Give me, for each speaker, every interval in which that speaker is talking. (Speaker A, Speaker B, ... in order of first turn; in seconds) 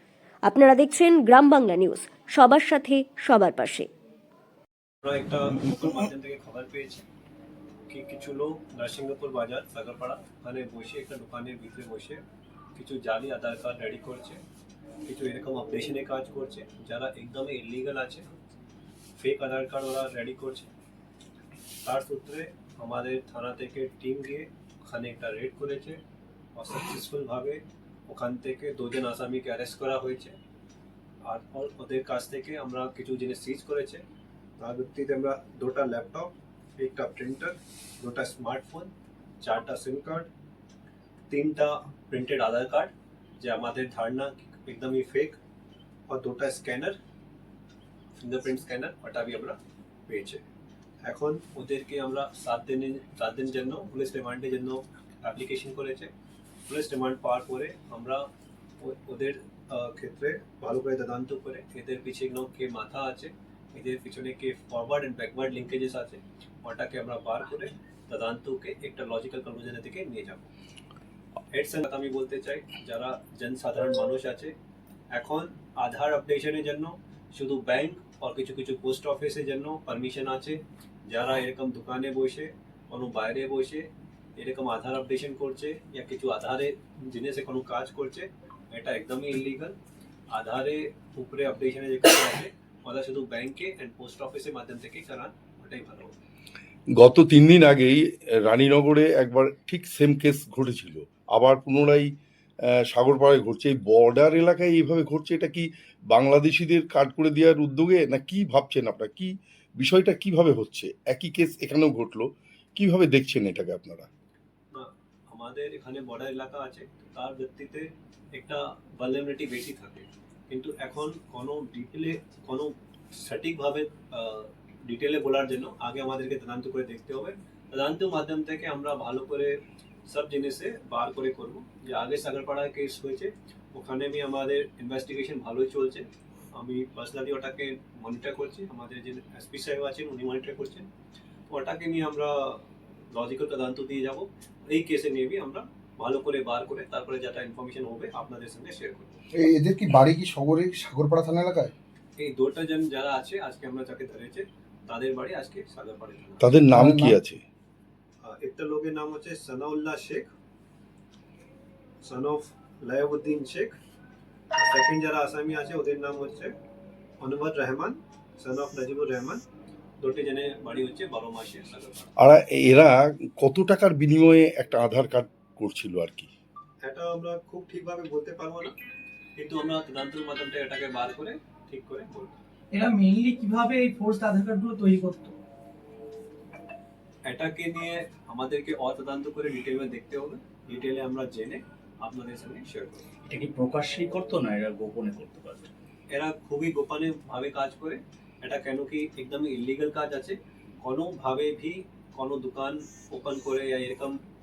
Speaker A: 0.5-3.9
Speaker B: 5.0-7.1, 7.9-12.2, 12.8-14.4, 15.1-18.3, 19.2-20.7, 21.9-26.0, 26.6-30.4, 31.2-34.0, 34.6-40.3, 41.3-45.4, 46.1-47.0, 48.2-49.6, 50.1-50.4, 51.1-56.1, 56.7-58.2, 58.8-70.5, 71.5-74.5, 75.1-89.8, 90.3-96.1, 114.7-129.6, 130.1-140.9, 141.5-142.6, 143.1-149.2, 152.2-156.5, 158.2-160.3, 162.0-163.7, 164.5-166.5, 167.2-169.4, 170.0-172.1, 176.8-178.8, 179.4-182.3, 187.3-193.0, 196.1-204.2
Speaker C: 97.0-102.1, 102.7-114.1, 156.4-157.4, 172.2-176.3
Speaker D: 149.3-151.7, 156.7-157.2
Speaker E: 182.7-185.4
Speaker F: 193.2-195.7